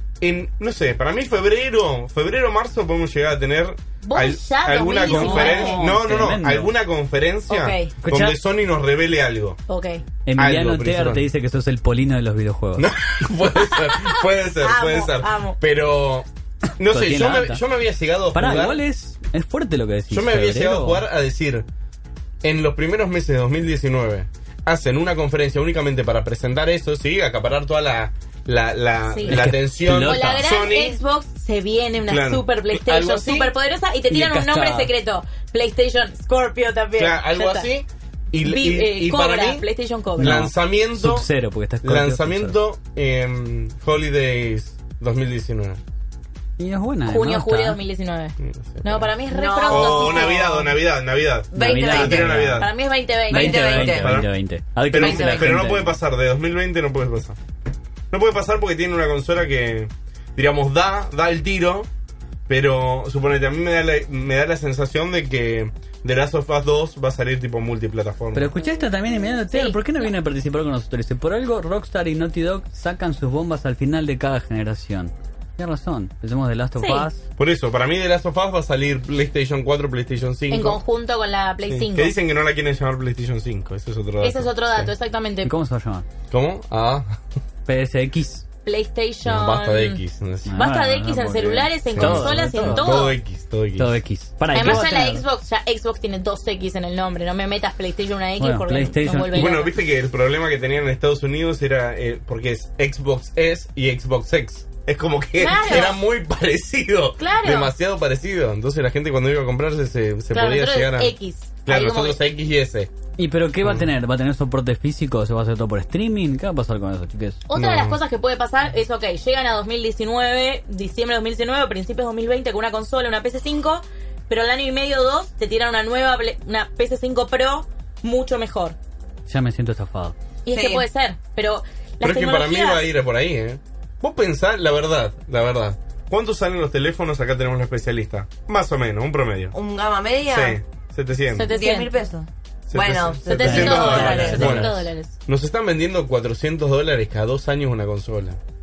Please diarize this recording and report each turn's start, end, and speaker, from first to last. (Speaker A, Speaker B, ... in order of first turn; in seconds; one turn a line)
Speaker A: 0.2-9.6
Speaker B: 4.0-5.8
Speaker C: 5.0-6.7
Speaker B: 7.5-7.9
Speaker C: 8.0-8.4
Speaker B: 9.7-10.0
Speaker C: 10.3-12.9
Speaker A: 10.4-11.2
Speaker A: 12.8-18.8
Speaker B: 14.6-15.6
Speaker C: 16.9-17.6
Speaker C: 18.3-21.0
Speaker A: 20.1-21.7
Speaker A: 22.4-31.0
Speaker B: 29.1-29.4
Speaker C: 29.3-30.5
Speaker B: 30.0-37.7
Speaker A: 32.0-33.5
Speaker C: 34.1-34.9
Speaker A: 37.0-39.6
Speaker B: 38.4-40.4
Speaker A: 40.2-41.3
Speaker C: 40.2-42.6
Speaker A: 41.8-45.8
Speaker C: 46.6-47.8
Speaker B: 47.0-50.7
Speaker A: 48.4-49.1
Speaker D: 49.3-50.7
Speaker A: 49.7-52.7
Speaker D: 51.5-52.5
Speaker C: 51.5-52.7
Speaker B: 52.6-53.7
Speaker D: 53.3-54.2
Speaker C: 53.3-56.0
Speaker A: 53.6-54.3
Speaker A: 54.9-57.4
Speaker D: 54.9-55.7
Speaker A: 58.1-61.9
Speaker A: 62.5-68.5
Speaker C: 68.3-77.3
Speaker B: 69.5-70.1
Speaker B: 76.8-77.1
Speaker A: 77.4-80.8
Speaker B: 80.5-82.1
Speaker A: 81.7-84.9
Speaker B: 84.2-85.5
Speaker C: 85.5-86.0
Speaker A: 86.3-87.2
Speaker C: 87.7-88.5
Speaker B: 88.7-90.0
Speaker A: 89.2-90.6
Speaker C: 90.5-93.1
Speaker B: 90.5-93.2
Speaker A: 91.9-94.0
Speaker C: 93.8-95.2
Speaker B: 94.5-99.8
Speaker A: 94.5-94.8
Speaker C: 98.4-99.6
Speaker A: 99.3-111.1
Speaker B: 105.4-106.0
Speaker B: 107.2-107.7
Speaker B: 110.3-112.2
Speaker A: 111.6-112.9
Speaker C: 113.2-117.4
Speaker B: 117.5-128.8
Speaker A: 117.5-118.0
Speaker C: 129.3-130.1
Speaker B: 130.4-132.8
Speaker D: 130.5-130.9
Speaker A: 132.0-139.6
Speaker D: 139.5-140.6
Speaker A: 140.3-141.5
Speaker B: 141.3-141.9
Speaker D: 141.4-144.6
Speaker A: 142.7-148.4
Speaker B: 143.3-145.1
Speaker C: 143.4-144.8